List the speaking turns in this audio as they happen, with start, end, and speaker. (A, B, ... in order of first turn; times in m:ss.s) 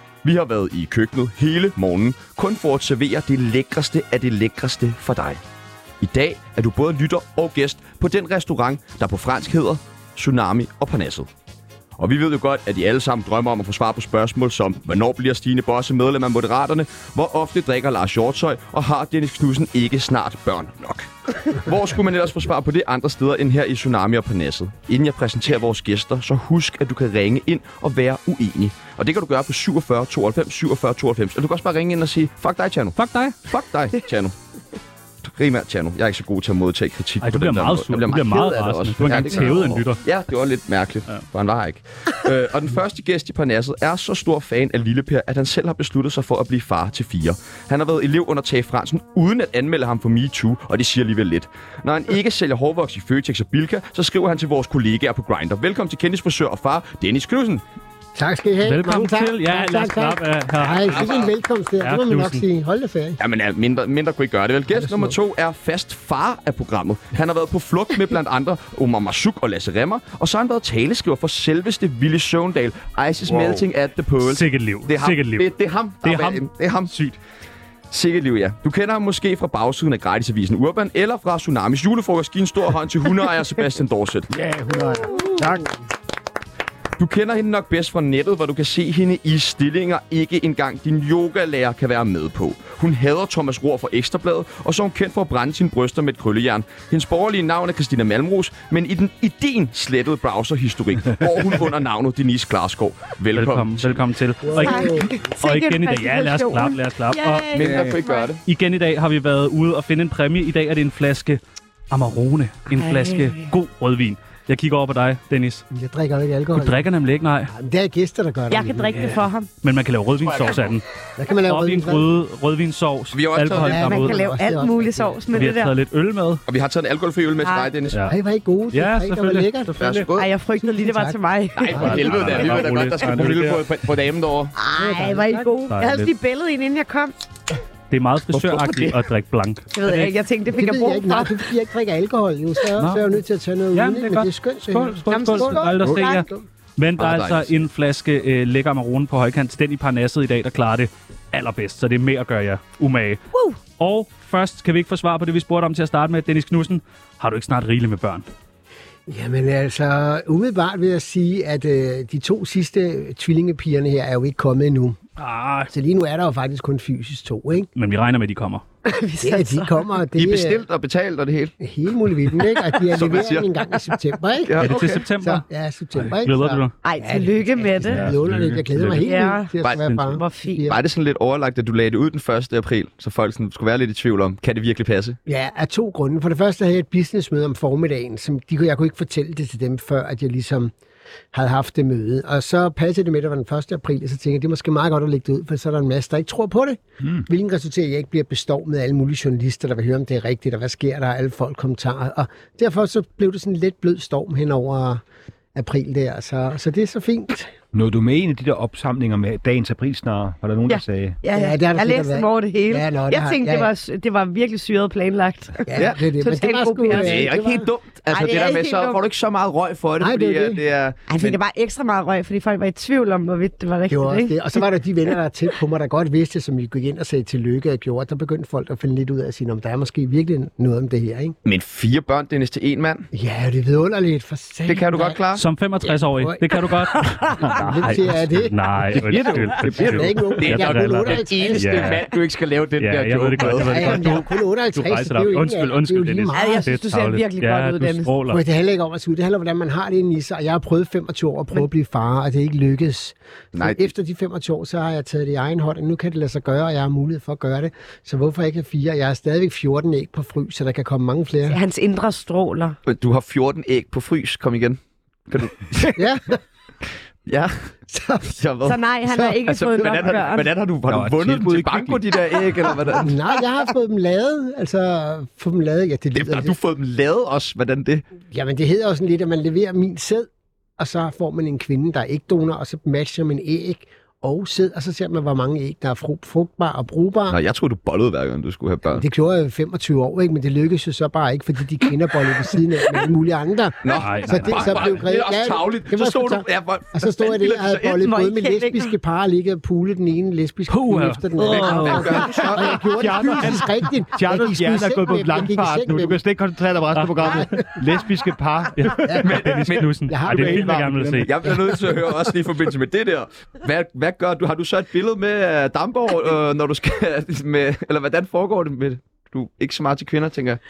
0:00.2-0:05.4 A
0:06.0-0:11.3 A
0:12.0-0:34.3 A
0:33.0-0:33.4 B
0:35.2-0:57.6 A
0:37.2-0:40.0 B
0:58.1-1:03.2 C
0:58.6-1:01.2 B
1:00.9-1:01.3 A
1:01.8-1:02.4 B
1:03.2-1:17.1 A
1:04.7-1:05.2 C
1:13.3-1:13.6 B
1:14.2-1:15.5 B
1:16.0-1:17.1 B
1:17.9-1:24.3 A
1:24.3-1:25.7 D
1:27.0-1:44.0 A
1:43.3-1:55.6 B
1:44.4-1:45.2 C
1:44.6-1:48.3 E
1:47.5-1:48.4 A
1:52.7-1:53.5 E
1:55.7-1:56.8 C
1:56.5-1:57.5 B
1:57.5-1:59.2 C
1:58.5-1:59.5 E
1:59.6-2:00.8 B
2:00.2-2:00.6 A
2:01.2-2:02.1 C
2:01.4-2:04.2 B
2:03.1-2:03.8 A
2:03.5-2:05.5 C
2:03.8-2:05.8 E
2:05.3-2:06.4 B
2:06.5-2:08.0 A
2:07.4-2:07.7 E
2:08.1-2:10.0 C
2:08.7-2:10.1 B
2:09.8-2:10.3 A
2:10.2-2:12.7 E
2:10.6-2:11.2 C
2:11.6-2:14.5 A
2:11.7-2:12.1 C
2:11.8-2:13.7 B
2:14.6-2:17.1 E
2:14.7-2:15.5 C
2:15.7-2:16.1 B
2:17.9-2:20.1 B
2:18.3-2:19.0 A
2:19.7-2:21.4 E
2:20.5-2:26.4 C
2:22.8-2:23.2 B
2:23.7-2:38.2 B
2:25.1-2:26.2 E
2:27.0-2:27.5 A
2:39.1-2:45.0 C
2:45.2-2:45.7 B
2:45.7-2:47.7 C
2:47.8-2:48.6 B
2:48.8-2:49.8 E
2:49.2-2:50.6 C
2:50.2-2:51.5 A
2:51.6-3:00.8 C
2:52.9-2:53.5 A
2:54.4-2:55.0 A
2:54.6-2:55.4 B
2:56.0-2:56.7 B
2:56.8-2:58.0 E
2:57.9-2:58.6 D
2:58.7-2:59.1 B
2:59.0-2:59.5 E
2:59.8-3:00.2 B
3:00.1-3:00.6 E
3:00.7-3:05.2 A
3:05.2-3:10.7 C
3:11.3-3:25.0 C
3:25.5-3:27.5 C
3:27.7-3:31.2 D
3:30.7-3:37.3 E
3:31.3-3:33.7 C
3:35.7-3:37.7 C
3:36.9-3:41.4 A
3:38.1-3:39.0 E
3:40.0-3:40.6 C
3:41.1-3:44.4 E
3:43.9-3:51.4 C
3:51.4-3:53.1 A
3:53.1-3:55.2 C
3:54.6-3:55.4 A
3:55.3-4:02.0 B
3:55.8-4:02.0 C
3:57.4-3:57.7 D
3:58.9-4:00.2 D
4:00.4-4:04.2 A
4:02.8-4:08.4 B
4:03.6-4:06.7 C
4:06.3-4:08.1 E
4:08.3-4:21.6 C
4:13.5-4:13.9 A
4:21.5-4:22.8 E
4:22.8-4:26.0 A
4:25.9-4:26.4 C
4:27.2-4:27.7 A
4:27.9-4:28.3 C
4:28.2-4:33.3 A
4:28.6-4:30.5 E
4:30.9-4:32.1 D
4:32.9-4:36.6 C
4:36.1-4:38.0 A
4:38.3-4:47.4 C
4:47.3-4:49.0 A
4:48.9-5:06.2 C
4:53.8-4:58.0 A
4:54.0-4:54.9 B
4:58.0-4:58.9 E
5:00.7-5:02.3 B
5:01.5-5:03.3 A
5:02.3-5:09.2 D
5:07.0-5:07.6 B
5:07.2-5:07.6 C
5:08.8-5:11.3 B
5:09.0-5:09.4 C
5:09.2-5:10.7 A
5:10.0-5:12.2 C
5:10.3-5:10.8 D
5:11.2-5:20.6 A